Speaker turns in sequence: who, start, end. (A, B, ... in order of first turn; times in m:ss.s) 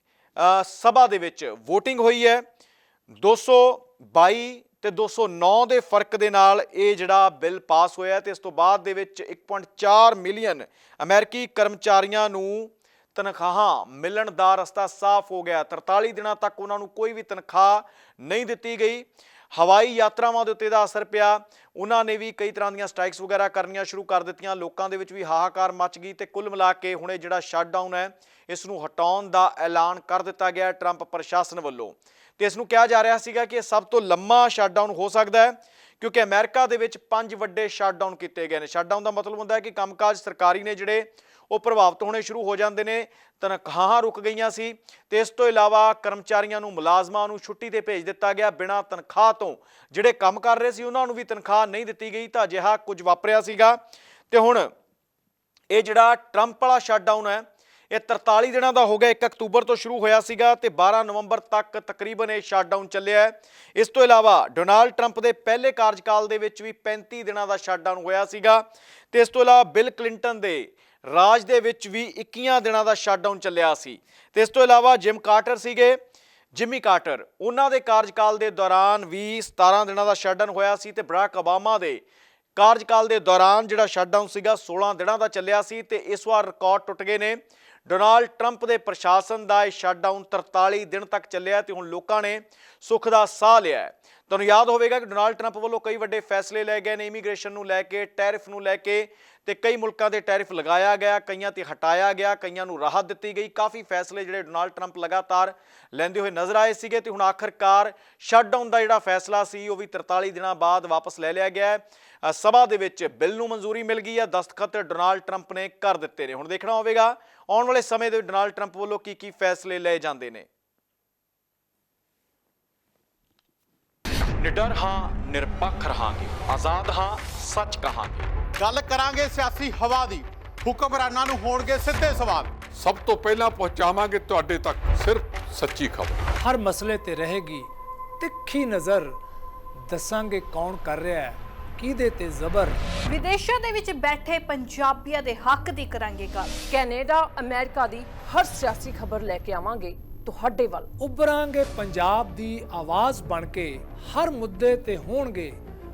0:00.4-0:02.4 A
0:03.2-0:53.8 A
0:54.3-0:54.7 A
0:55.7-1:16.0 A
1:16.5-1:22.0 A
1:22.6-2:00.5 A
2:04.4-2:08.3 A
2:08.6-2:12.6 B
2:12.6-2:16.2 C
2:16.4-2:17.7 D
2:18.2-2:19.2 D
2:19.9-2:22.8 D
2:23.1-2:26.5 E
2:26.7-2:30.9 F
2:31.0-2:35.6 D